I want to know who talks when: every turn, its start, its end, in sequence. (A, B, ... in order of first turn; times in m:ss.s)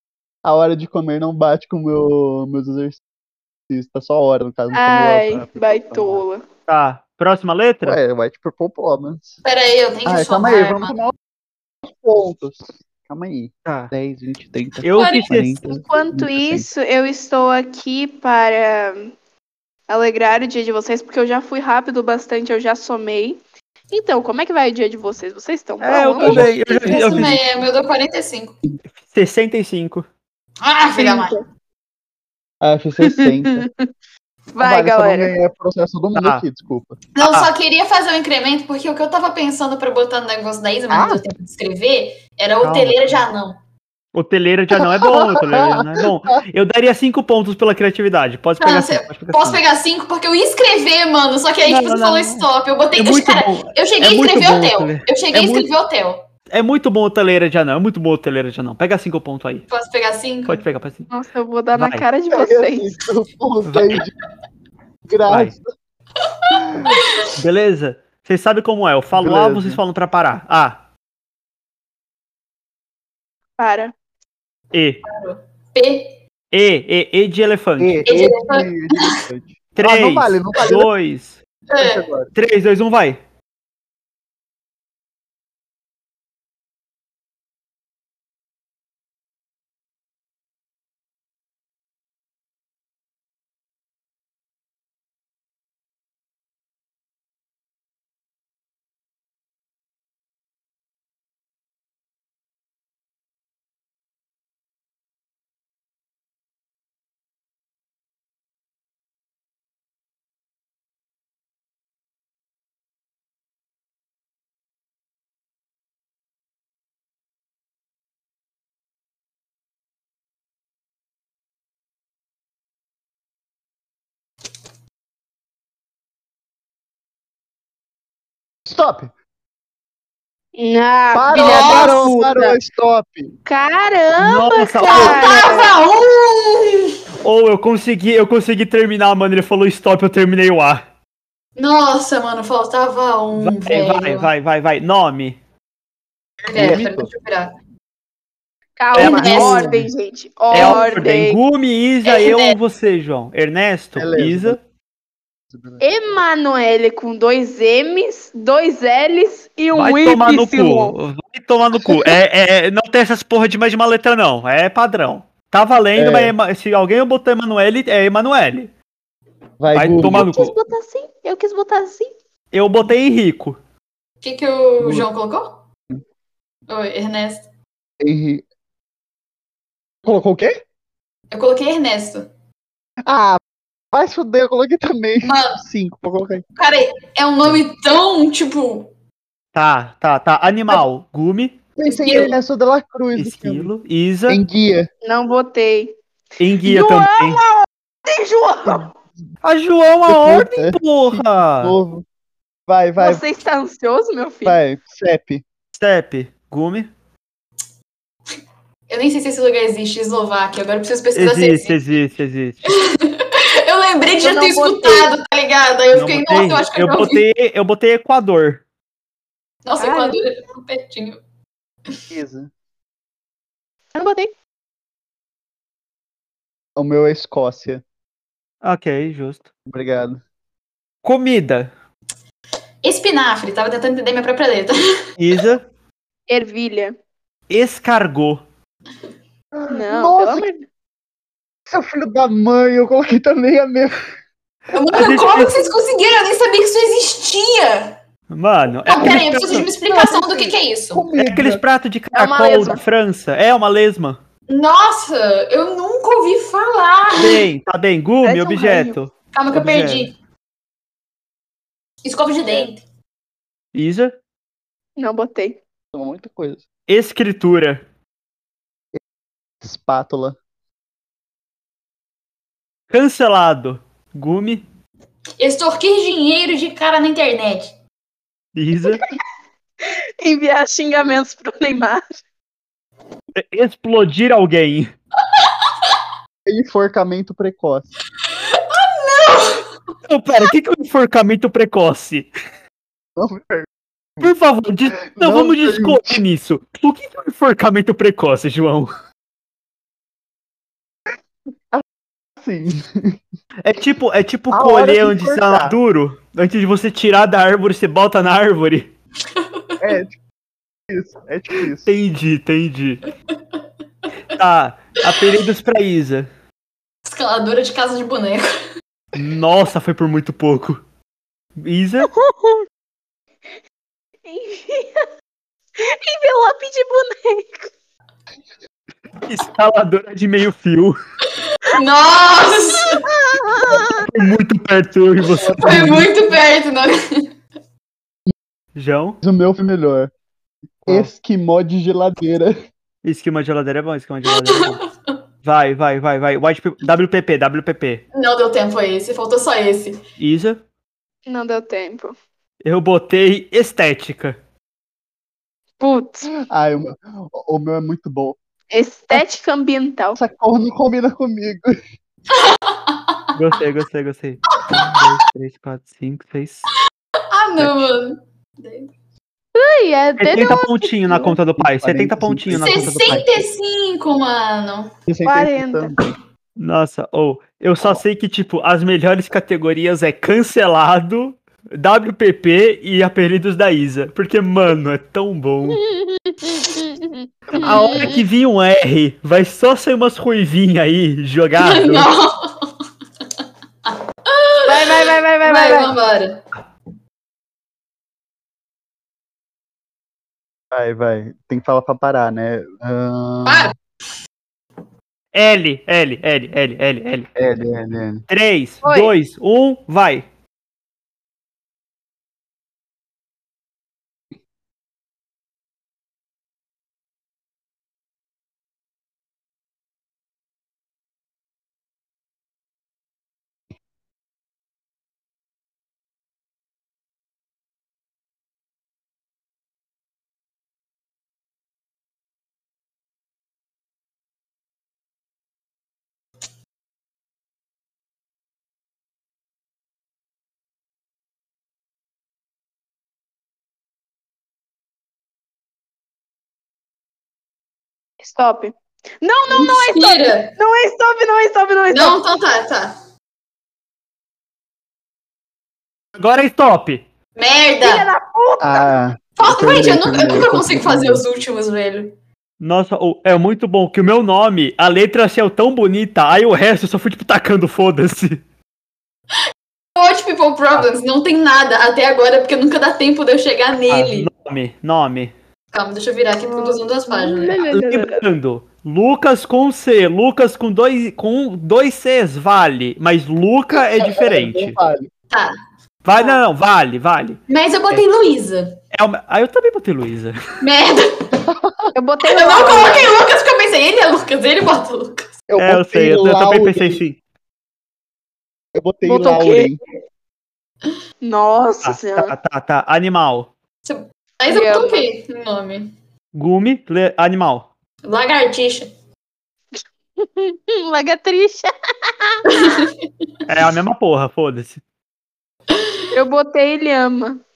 0:00.4-0:03.0 A
0:03.7-0:06.2 A
0:04.7-0:06.4 B
0:06.7-0:08.0 C
0:07.8-0:09.3 A
0:09.4-0:10.9 D
0:10.0-0:11.1 A
0:11.9-0:16.7 A
0:13.6-0:13.9 C
0:14.8-0:15.7 C
0:14.9-0:15.3 D
0:15.7-0:19.1 B
0:19.9-0:23.4 B
0:23.9-0:26.4 B
0:25.8-0:27.4 C
0:26.2-0:28.6 D
0:28.9-0:30.0 C
0:30.6-0:31.4 D
0:31.0-0:31.4 B
0:32.6-0:33.6 A
0:33.0-0:33.9 B
0:34.5-0:35.3 B
0:34.6-0:37.0 A
0:36.2-0:36.4 C
0:37.1-0:43.6 D
0:37.2-0:37.5 C
0:40.9-0:41.2 A
0:42.6-0:43.2 C
0:44.1-0:49.6 C
0:44.7-0:46.4 A
0:48.6-0:56.2 D
0:51.6-0:55.7 C
0:56.5-0:59.6 C
0:59.7-1:00.6 D
1:00.5-1:01.1 C
1:01.1-1:02.9 B
1:01.8-1:02.0 C
1:02.3-1:04.1 A
1:03.6-1:04.0 C
1:05.1-1:05.7 A
1:05.3-1:05.5 C
1:06.2-1:07.3 D
1:06.5-1:07.0 A
1:07.3-1:10.8 C
1:09.1-1:09.8 A
1:13.6-1:13.9 B
1:14.7-1:15.0 C
1:15.0-1:16.2 D
1:16.5-1:18.0 C
1:17.8-1:20.9 A
1:18.0-1:19.2 D
1:19.8-1:21.4 C
1:21.7-1:22.0 D
1:21.8-1:22.3 A
1:22.3-1:23.2 C
2:08.6-2:09.1 A
2:10.6-2:12.6 B
2:11.1-2:13.3 A
2:11.3-2:12.0 D
2:13.4-2:15.8 B
2:14.2-2:15.2 C
2:14.8-2:17.0 D
2:17.2-2:20.8 C
2:21.6-2:24.3 D
2:23.4-2:25.4 C
2:26.4-2:27.1 A
2:26.5-2:27.5 D
2:28.8-2:31.4 B
2:28.9-2:29.8 C
2:28.9-2:29.7 D
2:30.5-2:34.6 C
2:30.6-2:30.9 D
2:32.0-2:32.6 D
2:34.0-2:34.6 A
2:35.5-2:35.9 A
2:35.8-2:40.9 B
2:39.7-2:48.7 C
2:45.9-2:46.3 A
2:49.6-2:50.3 A
2:49.7-2:50.5 C
2:50.0-2:52.1 B
2:52.5-2:53.6 C
2:54.2-2:55.6 D
2:54.8-2:55.1 A
2:56.7-2:57.4 D
2:58.0-2:58.4 A
3:00.0-3:00.5 A
3:01.3-3:02.3 D
3:03.0-3:03.4 A
3:03.9-3:06.4 A
3:05.2-3:05.6 D
3:06.6-3:08.9 D
3:09.5-3:11.6 C
3:11.8-3:13.7 A
3:11.8-3:12.4 D
3:13.2-3:14.4 C
3:14.3-3:14.9 A
3:15.0-3:16.0 B
3:16.4-3:17.4 C
3:16.6-3:18.9 B
3:19.4-3:21.8 C
3:20.1-3:22.0 A
3:22.7-3:23.2 A
3:23.0-3:24.6 B
3:24.4-3:25.4 A
3:25.7-3:26.9 C
3:28.9-3:31.8 D
3:31.1-3:32.7 C
3:32.7-3:37.2 D
3:34.2-3:35.1 B
3:35.9-3:38.6 C
3:39.6-3:41.2 D
3:39.8-3:40.2 B
3:42.1-3:42.5 A
3:43.9-3:44.3 B
3:46.8-3:47.8 A
3:48.6-3:49.4 C
3:49.6-3:50.2 A
3:51.0-3:51.7 C
3:52.8-3:54.8 D
3:55.2-3:55.6 C
3:56.3-3:57.0 B
3:57.5-3:58.4 C
3:59.5-4:00.5 A
3:59.7-4:00.6 B
4:01.7-4:03.9 A
4:04.7-4:08.0 D
4:04.9-4:05.5 C
4:08.3-4:09.7 C
4:08.8-4:11.0 D
4:09.8-4:11.6 A
4:11.1-4:14.2 C
4:12.1-4:12.8 B
4:14.5-4:17.4 D
4:17.2-4:20.1 C
4:18.2-4:19.0 B
4:19.3-4:20.1 D
4:22.0-4:22.8 D
4:23.7-4:24.2 C
4:25.0-4:25.6 B
4:25.9-4:26.6 A
4:26.9-4:27.8 C
4:29.6-4:30.4 A
4:32.9-4:34.6 C
4:35.4-4:37.7 D
4:38.5-4:39.0 C
4:39.9-4:42.2 B
4:43.3-4:44.9 C
4:46.4-4:47.9 A
4:48.3-4:49.7 D
4:50.1-4:52.3 C
4:53.2-4:53.7 A
4:54.2-4:58.9 C
4:55.1-4:56.2 A
5:02.4-5:03.2 A
5:03.6-5:08.9 C
5:04.5-5:05.8 A
5:09.3-5:09.8 D
5:09.8-5:10.1 A
5:10.9-5:11.9 A
5:11.8-5:13.0 C
5:14.3-5:16.3 C
5:17.0-5:18.6 D
5:19.1-5:20.8 C
5:21.6-5:22.1 C
5:22.0-5:22.6 B
5:24.2-5:25.1 B
5:25.8-5:27.7 B
5:29.2-5:31.0 C
5:31.7-5:33.0 D
5:32.8-5:34.1 B
5:33.5-5:33.8 A
5:34.0-5:36.0 C
5:35.3-5:36.1 A
5:35.6-5:37.3 D
5:38.7-5:39.2 C
5:39.2-5:40.1 A
5:40.8-5:42.5 A
5:43.0-5:44.8 C
5:44.3-5:44.8 D
5:45.4-5:48.0 C
5:48.1-5:50.0 D
5:50.2-5:50.6 C
5:51.3-5:52.1 B
5:52.6-5:54.4 C
5:55.8-5:56.3 B
5:56.3-5:58.4 A
5:58.7-6:00.2 B
6:00.2-6:01.8 A
6:02.3-6:03.2 D
6:03.3-6:06.7 C
6:04.7-6:05.0 D
6:07.3-6:08.9 D
6:09.6-6:11.3 B
6:10.2-6:13.3 C
6:11.6-6:13.2 A
6:12.5-6:14.9 D
6:15.1-6:16.1 A
6:15.2-6:15.9 B
6:16.6-6:25.8 C
6:25.7-6:28.2 B
6:27.5-6:28.2 A
6:27.5-6:32.1 C
6:31.6-6:32.7 D
6:33.8-6:36.4 D
6:34.6-6:35.9 B
6:40.7-6:43.7 A
6:43.4-6:43.7 D
6:45.3-6:47.3 C
6:47.4-6:48.2 A
6:48.3-6:50.2 C
6:48.8-6:49.1 B
7:28.2-7:32.2 B
7:29.5-7:30.5 D
7:31.9-7:33.0 D
7:36.2-7:37.0 C
7:37.4-7:38.1 D
7:37.8-7:38.9 B
7:38.6-7:41.2 A
7:39.4-7:42.1 D
7:42.6-7:48.4 C
7:49.9-7:54.3 D
7:53.9-7:55.3 C
7:55.7-7:57.6 D
7:56.4-7:58.3 B
7:57.6-8:04.8 C
8:03.8-8:05.1 A
8:05.3-8:05.6 D
8:06.0-8:07.4 C
8:07.5-8:08.8 D
8:08.9-8:10.4 C
8:10.6-8:11.3 D
8:11.4-8:11.9 A
8:11.9-8:13.1 B
8:12.2-8:15.3 D
8:15.5-8:17.0 A
8:15.6-8:17.2 C
8:18.7-8:19.8 A
8:19.0-8:19.7 B
8:21.2-8:22.3 B
8:21.8-8:23.5 C
8:23.8-8:25.9 D
8:24.5-8:25.0 B
8:26.3-8:27.7 C
8:28.0-8:28.9 D
8:30.2-8:32.4 B
8:32.5-8:32.9 D
8:33.5-8:34.8 C
8:35.7-8:36.0 D
8:36.1-8:37.4 B